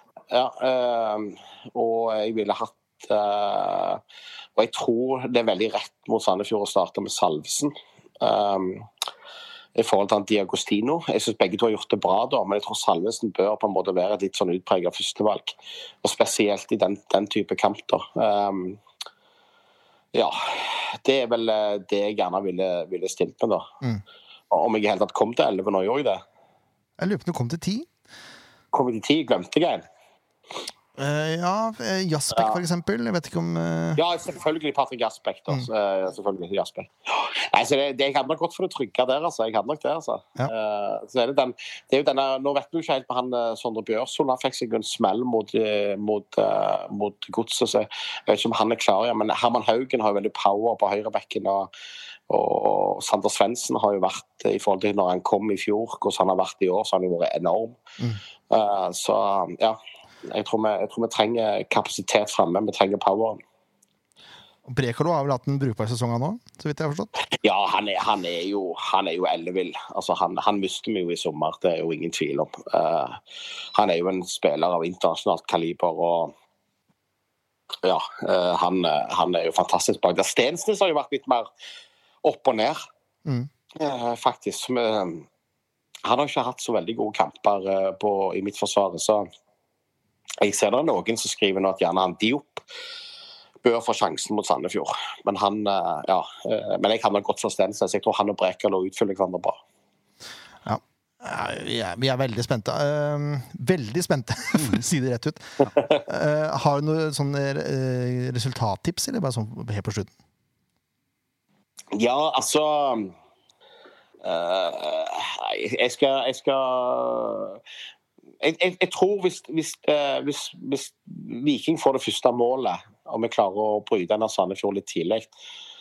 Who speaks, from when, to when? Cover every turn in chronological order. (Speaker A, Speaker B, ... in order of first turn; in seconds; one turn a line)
Speaker A: 0.3-4.0
Speaker A: 4.6-8.9
Speaker A: 9.8-18.8
Speaker A: 20.1-23.7
Speaker A: 24.5-26.2
Speaker B: 27.0-27.9
Speaker A: 28.7-29.9
Speaker B: 31.0-34.0
Speaker A: 34.0-51.7
Speaker A: 52.3-57.8
Speaker A: 58.5-63.4
Speaker B: 64.7-67.1
Speaker A: 67.4-73.2
Speaker A: 73.8-76.3
Speaker A: 77.8-81.5
Speaker A: 82.2-82.8
Speaker A: 83.8-85.2
Speaker A: 86.0-89.3
Speaker A: 90.4-92.6
Speaker A: 93.6-99.6
Speaker B: 100.7-110.1
Speaker A: 112.0-113.1
Speaker A: 114.2-117.6
Speaker A: 118.4-125.3